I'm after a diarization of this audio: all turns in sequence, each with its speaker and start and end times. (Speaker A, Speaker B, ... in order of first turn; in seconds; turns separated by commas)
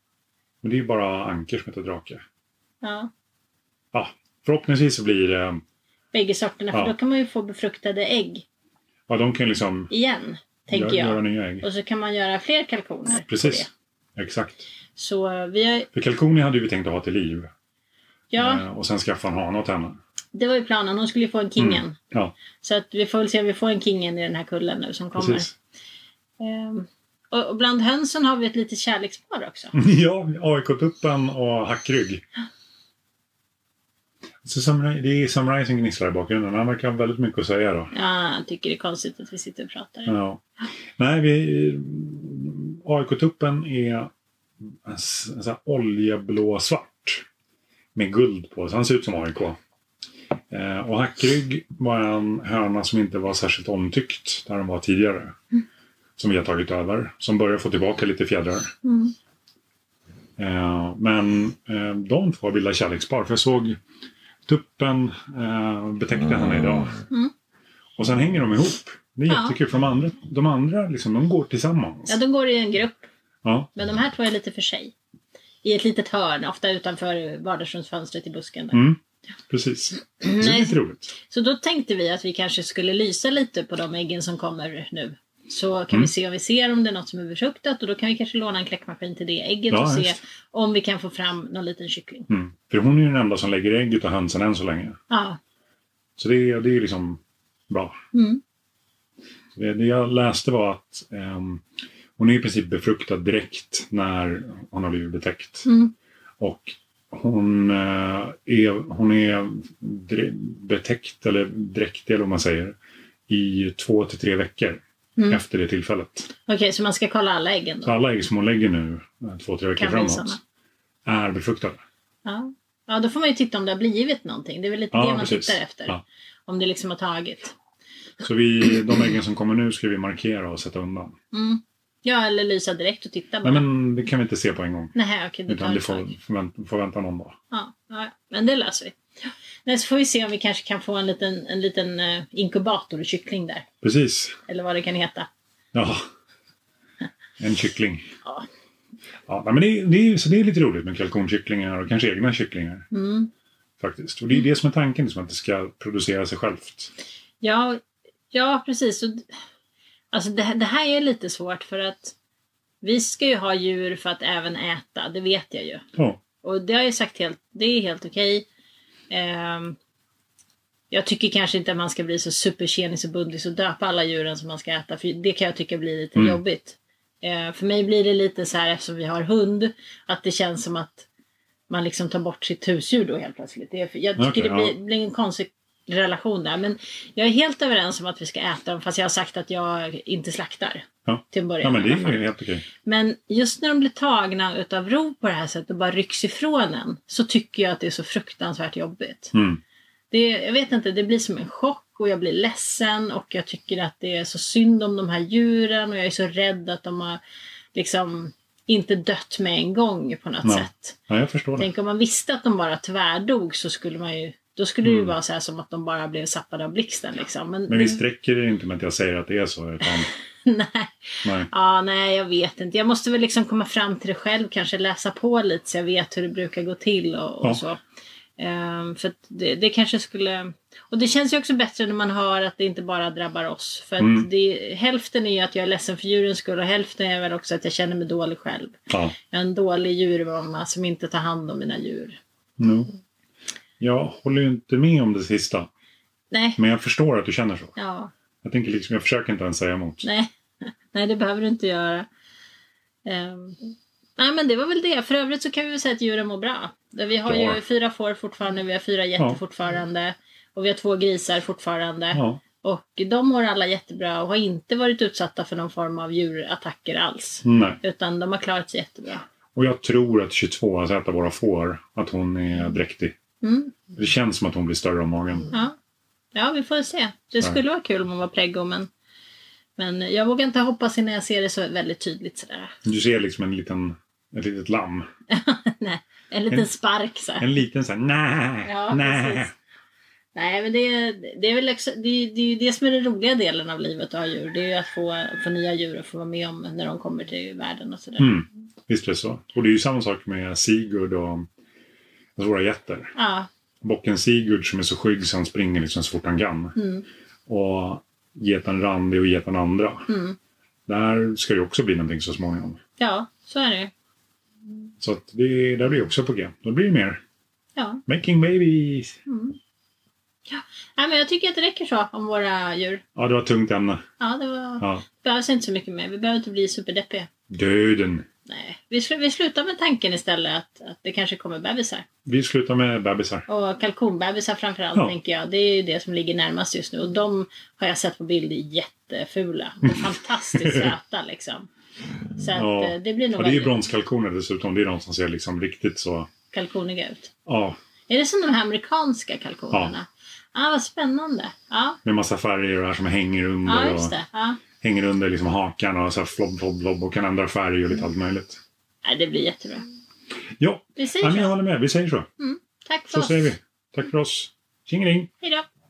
Speaker A: 0.6-2.2, Speaker B: 2.8-3.1, Speaker A: 3.9-5.6, Speaker B: 6.1-8.4, Speaker A: 9.1-9.9, Speaker B: 9.9-13.7, Speaker A: 10.7-11.7, Speaker A: 13.3-14.6, Speaker B: 14.9-15.9, Speaker A: 15.9-17.5, Speaker B: 18.3-18.6, Speaker A: 18.4-20.0, Speaker B: 20.3-22.0, Speaker A: 21.6-22.3, Speaker B: 22.6-25.5, Speaker A: 25.1-25.5, Speaker B: 26.4-29.7, Speaker A: 29.7-32.2, Speaker A: 34.4-37.9, Speaker B: 37.9-40.1, Speaker A: 40.1-40.4, Speaker A: 41.0-44.1, Speaker A: 44.8-47.2, Speaker A: 47.9-49.6, Speaker A: 50.5-55.3, Speaker A: 56.2-58.7, Speaker B: 58.8-59.1, Speaker A: 60.4-63.8, Speaker A: 64.5-67.0, Speaker A: 68.0-72.2, Speaker B: 69.3-69.6, Speaker B: 72.1-73.1, Speaker A: 73.4-73.7, Speaker B: 73.7-74.9, Speaker B: 75.6-78.8, Speaker A: 78.7-81.1, Speaker B: 80.2-92.3, Speaker A: 89.7-90.2, Speaker A: 92.3-95.0, Speaker B: 95.1-95.4, Speaker A: 96.2-98.0, Speaker B: 98.1-98.4, Speaker A: 99.5-101.6, Speaker A: 102.2-105.7, Speaker B: 105.7-105.9, Speaker A: 106.4-112.8, Speaker A: 113.3-116.3, Speaker B: 116.5-118.0, Speaker A: 117.8-120.4, Speaker B: 119.8-120.4, Speaker A: 121.0-121.8, Speaker B: 122.2-127.5, Speaker A: 124.9-126.0, Speaker A: 128.2-131.1, Speaker B: 131.3-133.6, Speaker A: 133.4-134.9, Speaker B: 134.9-136.2, Speaker A: 135.5-137.3, Speaker B: 137.5-143.7, Speaker A: 143.8-144.4, Speaker B: 144.5-145.3, Speaker A: 145.7-146.0, Speaker A: 147.4-148.1, Speaker A: 149.3-152.8, Speaker B: 152.9-153.3, Speaker A: 153.8-156.9, Speaker B: 157.4-157.8, Speaker B: 158.3-159.3, Speaker B: 160.1-162.1, Speaker B: 162.8-165.8, Speaker A: 165.9-166.2, Speaker B: 166.4-168.4, Speaker B: 169.1-169.8, Speaker B: 170.9-181.1, Speaker B: 181.7-192.3, Speaker A: 184.2-184.7, Speaker A: 191.1-192.7, Speaker B: 192.8-199.3, Speaker A: 199.3-199.6, Speaker B: 200.1-207.2, Speaker B: 207.7-211.0, Speaker A: 210.4-211.7, Speaker B: 211.6-218.0, Speaker A: 214.8-215.1, Speaker A: 217.7-220.1, Speaker B: 219.8-227.8, Speaker A: 221.2-221.5, Speaker B: 228.4-238.8, Speaker A: 234.0-234.3, Speaker A: 238.9-239.1, Speaker B: 239.3-242.2, Speaker A: 242.6-242.9, Speaker A: 243.8-245.7, Speaker B: 246.3-246.6, Speaker A: 246.6-247.8, Speaker B: 247.8-248.1, Speaker A: 248.4-250.1, Speaker B: 250.0-252.1, Speaker B: 253.1-269.2, Speaker A: 257.2-257.6, Speaker A: 262.1-262.4, Speaker A: 267.4-267.8, Speaker A: 269.5-273.1, Speaker B: 273.4-273.8, Speaker A: 273.9-275.5, Speaker B: 276.3-278.9, Speaker B: 279.8-282.8, Speaker A: 282.8-285.1, Speaker B: 285.3-287.5, Speaker A: 287.4-289.5, Speaker B: 288.6-289.5, Speaker B: 290.3-298.3, Speaker A: 298.2-301.5, Speaker A: 302.4-303.1, Speaker B: 303.1-303.5, Speaker A: 303.8-306.8, Speaker B: 306.8-307.0, Speaker A: 307.5-310.1, Speaker B: 310.1-310.4, Speaker A: 310.9-312.8, Speaker B: 313.0-313.9, Speaker A: 315.0-317.2, Speaker B: 317.8-318.0, Speaker A: 318.1-319.1, Speaker B: 319.3-319.6, Speaker B: 320.5-323.0, Speaker A: 323.1-324.0, Speaker B: 324.2-327.3, Speaker A: 327.5-328.2, Speaker B: 328.5-332.1, Speaker A: 332.2-333.4, Speaker B: 333.5-341.7, Speaker A: 340.6-340.9, Speaker B: 342.4-343.7, Speaker A: 342.5-346.3, Speaker B: 346.5-347.3, Speaker A: 347.4-347.8, Speaker B: 348.1-352.0, Speaker A: 352.0-354.2, Speaker B: 353.6-354.6, Speaker A: 354.8-358.6, Speaker B: 359.0-359.9, Speaker A: 360.6-362.3, Speaker B: 361.0-361.5, Speaker B: 362.4-363.5, Speaker A: 363.1-365.3, Speaker B: 365.4-365.6